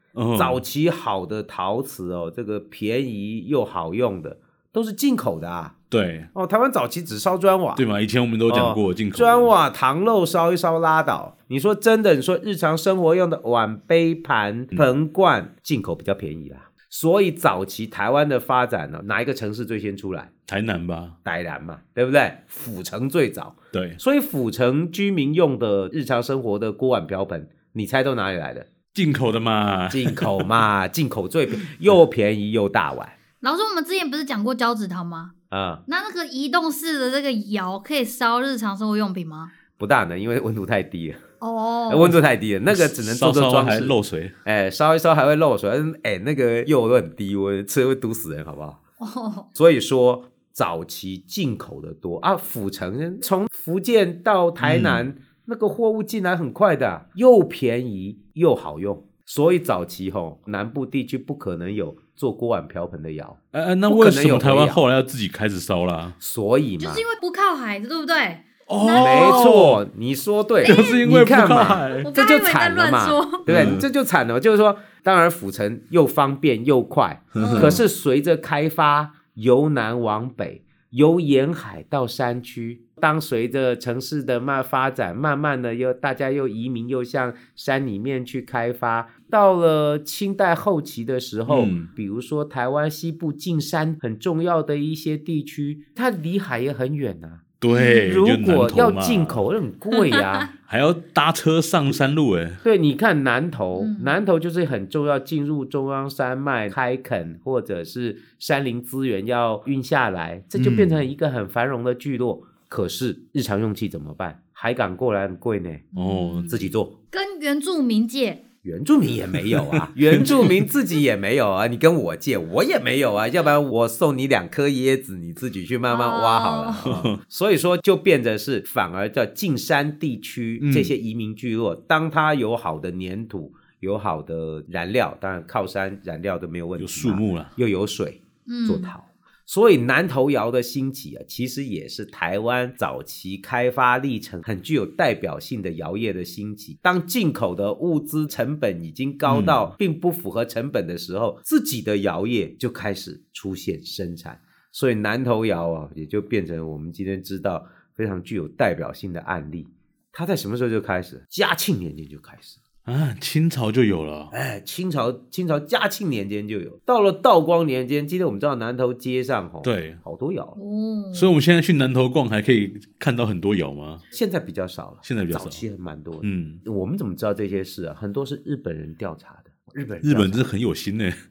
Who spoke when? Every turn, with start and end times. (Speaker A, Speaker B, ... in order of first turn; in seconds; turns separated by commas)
Speaker A: 0.1-0.6, Speaker B: 0.3-5.8, Speaker A: 5.9-6.3, Speaker B: 6.3-7.8, Speaker A: 7.8-9.5, Speaker B: 8.5-20.3, Speaker A: 20.5-21.2, Speaker B: 21.2-28.7, Speaker A: 23.7-24.0, Speaker A: 28.9-30.5, Speaker B: 29.9-33.1, Speaker C: 33.4-35.3, Speaker B: 35.5-35.8, Speaker C: 35.9-39.5, Speaker B: 39.8-41.2, Speaker C: 41.4-42.1, Speaker B: 41.9-43.9, Speaker A: 42.7-44.4, Speaker B: 44.5-48.8, Speaker C: 49.0-49.5, Speaker B: 49.5-64.8, Speaker A: 54.6-55.0, Speaker A: 63.5-66.2, Speaker B: 66.2-67.0, Speaker C: 66.8-69.5, Speaker A: 68.7-69.8, Speaker B: 69.0-97.4, Speaker C: 70.6-71.0, Speaker A: 70.6-72.1, Speaker C: 72.0-73.5, Speaker A: 73.5-73.8, Speaker A: 77.3-77.8, Speaker C: 77.4-77.8, Speaker A: 91.5-91.9, Speaker A: 97.6-99.4, Speaker C: 97.7-98.1, Speaker B: 98.0-100.5, Speaker C: 100.0-100.4, Speaker A: 100.6-102.6, Speaker B: 102.6-115.9, Speaker C: 103.8-104.1, Speaker A: 110.6-111.0, Speaker C: 115.9-116.6, Speaker A: 115.9-116.6, Speaker B: 116.5-116.9, Speaker C: 117.1-118.4, Speaker B: 118.6-162.6, Speaker A: 119.3-120.6, Speaker C: 125.9-126.9, Speaker A: 126.8-127.2, Speaker A: 130.6-130.9, Speaker A: 136.8-137.5, Speaker C: 138.5-138.9, Speaker A: 149.3-149.7, Speaker A: 162.9-164.3, Speaker B: 164.3-170.6, Speaker A: 169.6-170.0, Speaker C: 170.6-171.3, Speaker A: 171.1-174.0, Speaker B: 174.1-180.4, Speaker A: 175.0-175.6, Speaker A: 176.2-176.6, Speaker A: 180.0-181.2